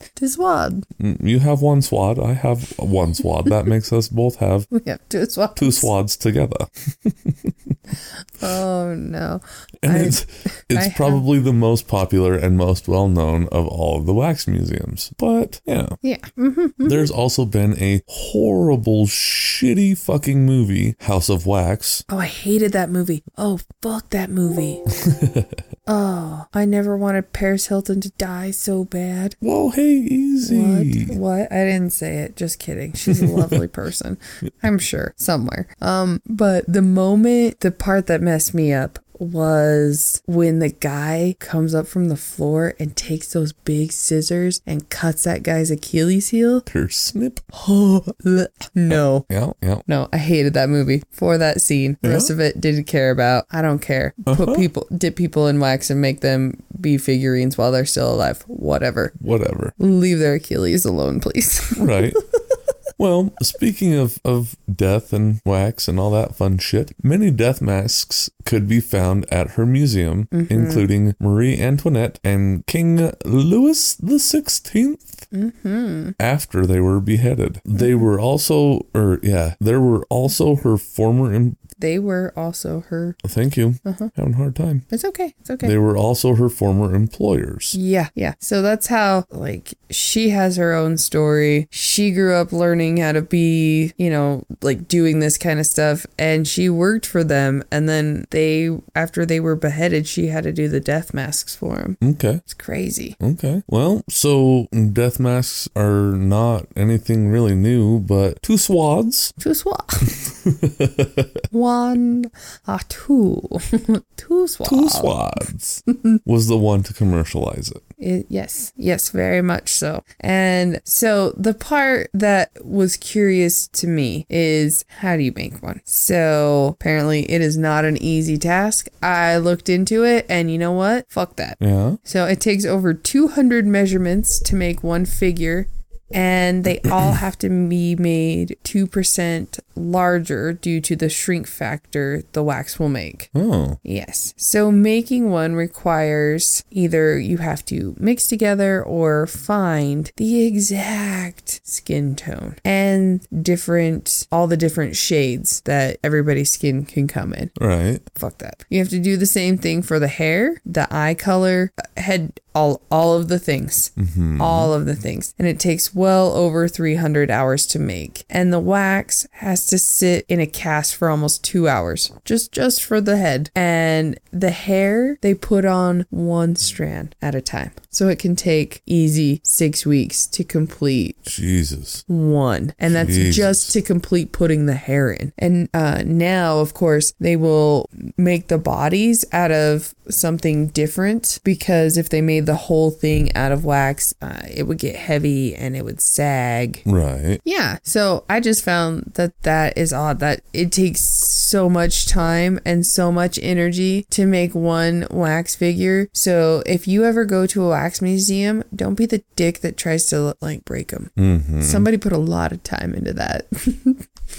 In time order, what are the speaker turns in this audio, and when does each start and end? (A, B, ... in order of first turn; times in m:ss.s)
0:00.2-0:00.9 A
0:01.0-0:04.7 B
0:04.7-0:05.9 A
0:05.6-0:07.7 B
0:08.4-0:11.2 A
0:09.8-0:16.0 B
0:16.0-0:17.1 A
0:16.8-0:22.0 B
0:22.1-0:24.9 A
0:25.0-0:25.5 B
0:25.9-0:29.4 A
0:29.4-0:31.2 B
0:30.4-0:46.6 A
0:33.0-0:33.6 B
0:46.7-0:47.5 B
0:47.5-0:49.3 A
0:48.9-0:49.8 B
0:49.9-0:59.2 A
0:52.0-0:52.3 B
0:54.3-0:54.7 B
0:59.2-0:59.8 B
0:59.8-1:02.2 A
1:01.8-1:02.2 B
1:03.0-1:15.3 B
1:10.3-1:10.9 A
1:15.3-1:16.2 A
1:16.2-1:21.6 B
1:21.8-1:23.2 A
1:23.2-1:24.9 B
1:23.8-1:24.1 A
1:24.9-1:25.8 A
1:25.6-1:27.8 B
1:27.7-1:43.2 A
1:42.0-1:42.4 B
1:43.2-1:49.4 B
1:49.4-1:50.2 A
1:50.1-1:51.4 B
1:51.5-1:55.2 A
1:54.6-1:57.8 B
1:58.0-2:23.3 A
2:11.6-2:12.0 B
2:23.4-2:23.8 B
2:23.8-2:37.5 A
2:37.6-2:38.0 B
2:38.1-3:01.3 A
2:44.0-2:44.7 B
3:01.3-3:02.0 B
3:02.1-3:16.8 A
3:02.9-3:03.7 B
3:16.9-3:17.4 B
3:17.4-3:34.0 A
3:31.2-3:31.9 B